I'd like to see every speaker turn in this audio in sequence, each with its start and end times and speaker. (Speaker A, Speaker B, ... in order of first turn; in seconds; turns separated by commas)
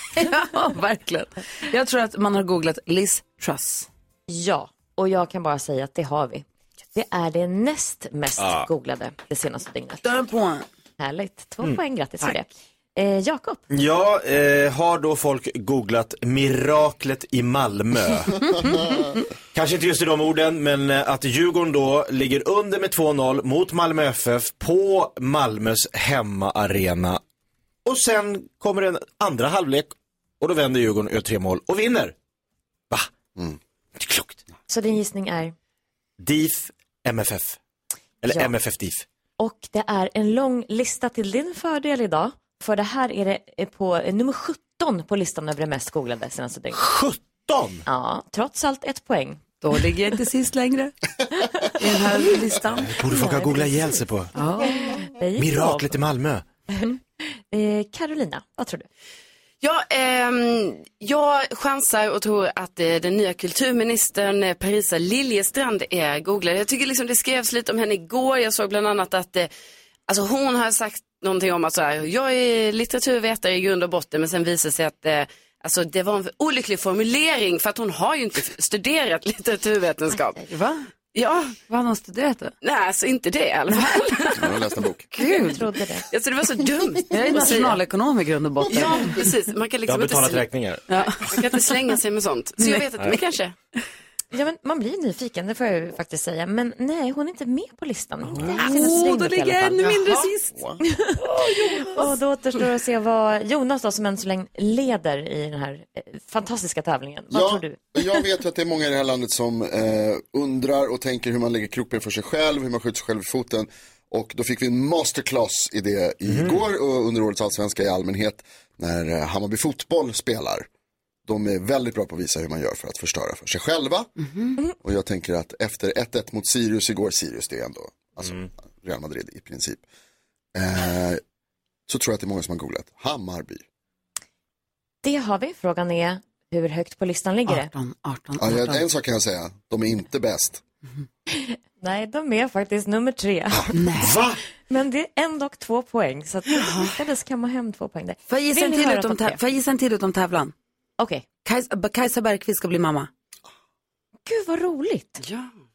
Speaker A: 0.1-3.9, Speaker B: 4.3-10.0, Speaker C: 8.4-8.7, Speaker A: 10.0-10.6, Speaker B: 11.0-13.6, Speaker C: 13.7-18.7, Speaker C: 19.5-27.2, Speaker C: 27.8-32.1, Speaker C: 34.0-34.4, Speaker B: 34.7-35.5, Speaker C: 36.2-37.6, Speaker C: 38.2-39.0, Speaker B: 38.3-38.5, Speaker B: 39.4-46.9, Speaker C: 46.8-47.8, Speaker B: 47.9-49.4, Speaker A: 49.6-50.9, Speaker A: 51.8-52.9, Speaker C: 52.9-54.3, Speaker B: 53.0-55.9, Speaker A: 54.3-54.9, Speaker C: 55.4-56.4, Speaker B: 56.7-58.9, Speaker D: 59.6-69.5, Speaker D: 70.1-80.5, Speaker A: 80.5-80.8, Speaker D: 81.1-81.6, Speaker A: 81.7-82.5, Speaker D: 82.6-84.5, Speaker A: 83.8-84.3, Speaker E: 84.4-85.0, Speaker A: 85.2-85.6, Speaker B: 85.2-86.0, Speaker D: 86.1-87.8, Speaker A: 87.0-89.2, Speaker D: 88.6-90.5, Speaker C: 89.8-90.8, Speaker A: 90.9-91.2, Speaker D: 91.3-93.5, Speaker B: 94.3-100.0, Speaker A: 98.6-100.5, Speaker D: 99.8-100.3, Speaker E: 100.5-100.8, Speaker B: 101.0-107.8, Speaker A: 101.3-102.1, Speaker E: 107.3-120.7, Speaker C: 116.3-116.6, Speaker E: 121.2-124.1, Speaker A: 124.2-124.6, Speaker E: 124.8-129.8, Speaker E: 130.5-131.2, Speaker E: 131.9-133.6, Speaker B: 135.0-137.7, Speaker A: 137.5-138.8, Speaker E: 138.4-140.6, Speaker B: 141.3-143.8, Speaker A: 143.7-144.2, Speaker C: 144.0-144.4, Speaker B: 144.7-149.4, Speaker D: 146.6-146.9, Speaker A: 148.3-150.5, Speaker B: 151.0-151.2, Speaker A: 151.4-153.1, Speaker B: 154.2-155.2, Speaker D: 155.2-155.5